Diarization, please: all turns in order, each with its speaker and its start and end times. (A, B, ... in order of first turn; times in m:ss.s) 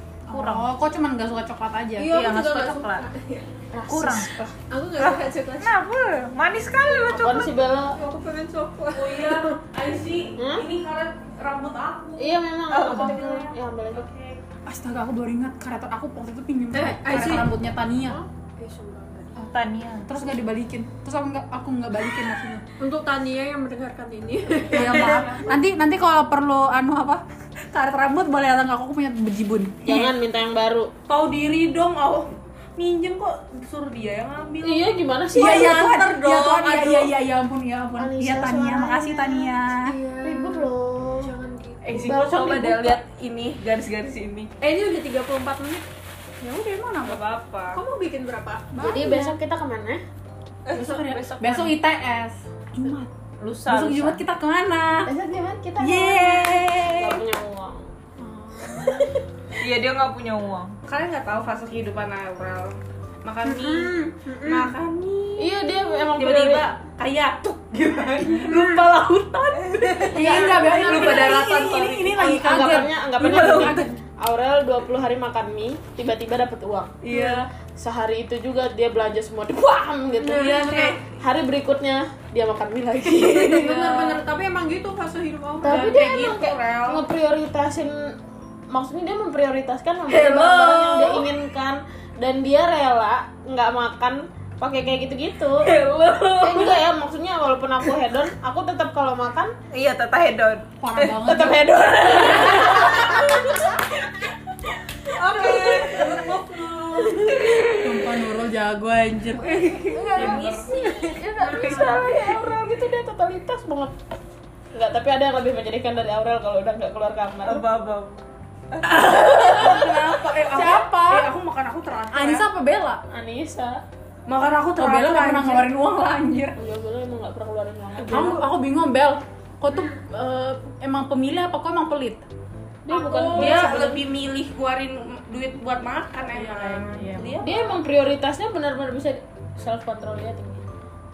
0:00.3-0:00.7 A
0:00.3-0:02.2 B
0:02.0-0:03.5 C
0:02.0-0:03.0 A
0:03.7-0:04.5 D
0:03.9-0:04.3 A
0:04.7-0:05.8 C
0:05.0-0:07.5 A
0:07.1-0:08.0 D
0:07.8-0:09.5 C
0:08.9-0:14.4 E
0:10.4-0:10.6 D
0:12.2-0:14.1 D
0:12.7-0:13.2 A
0:14.6-0:18.2 B
0:16.7-0:19.4 C
0:19.4-0:20.1 A
0:20.0-0:22.6 B
0:22.8-0:25.5 C
0:24.7-0:30.1 B
0:29.8-0:30.9 D
0:31.1-0:37.1 E
0:34.6-0:35.8 D
0:35.3-0:40.0 B
0:38.0-0:39.5 D
0:39.8-0:41.9 C
0:40.2-0:41.3 D
0:41.8-0:44.5 E
0:42.0-0:43.0 D
0:44.6-0:45.8 C
0:46.4-0:47.2 B
0:47.0-0:47.8 A
0:47.7-0:49.3 C
0:48.7-0:49.3 B
0:48.8-0:50.0 D
0:50.7-0:51.7 A
0:50.7-0:51.1 C
0:50.8-0:53.1 B
0:53.4-0:54.2 A
0:53.6-0:55.1 B
0:55.0-0:57.9 D
0:55.8-0:57.2 B
0:58.2-0:59.1 B
0:58.8-0:59.0 C
0:59.6-1:00.8 A
1:00.8-1:13.9 E
1:03.4-1:04.7 C
1:05.4-1:06.6 D
1:08.3-1:08.8 C
1:09.8-1:10.1 A
1:10.0-1:13.9 B
1:10.2-1:11.4 D
1:12.2-1:17.1 D
1:17.0-1:17.5 E
1:17.1-1:17.4 C
1:17.8-1:23.8 D
1:20.2-1:21.0 C
1:20.3-1:21.0 E
1:23.1-1:24.0 E
1:23.3-1:25.9 C
1:25.6-1:28.1 D
1:25.6-1:27.1 E
1:28.7-1:35.7 D
1:30.1-1:31.3 E
1:35.6-1:36.8 E
1:36.3-1:39.5 D
1:39.7-1:41.2 A
1:40.8-1:41.7 B
1:41.2-1:43.6 D
1:42.5-1:42.9 A
1:45.2-1:47.6 C
1:47.7-1:49.8 B
1:49.3-1:50.8 E
1:49.9-1:52.3 C
1:50.2-1:53.9 D
1:54.7-1:57.6 D
1:57.4-1:58.2 A
1:58.7-1:59.0 A
1:58.8-2:02.4 E
1:59.2-2:01.3 B
2:02.1-2:03.0 B
2:03.1-2:03.8 D
2:04.3-2:05.7 E
2:04.8-2:06.6 B
2:06.6-2:08.4 D
2:08.0-2:08.4 E
2:08.0-2:12.2 B
2:12.8-2:14.0 D
2:12.9-2:17.8 E
2:13.3-2:13.9 B
2:16.3-2:17.4 B
2:17.4-2:20.6 D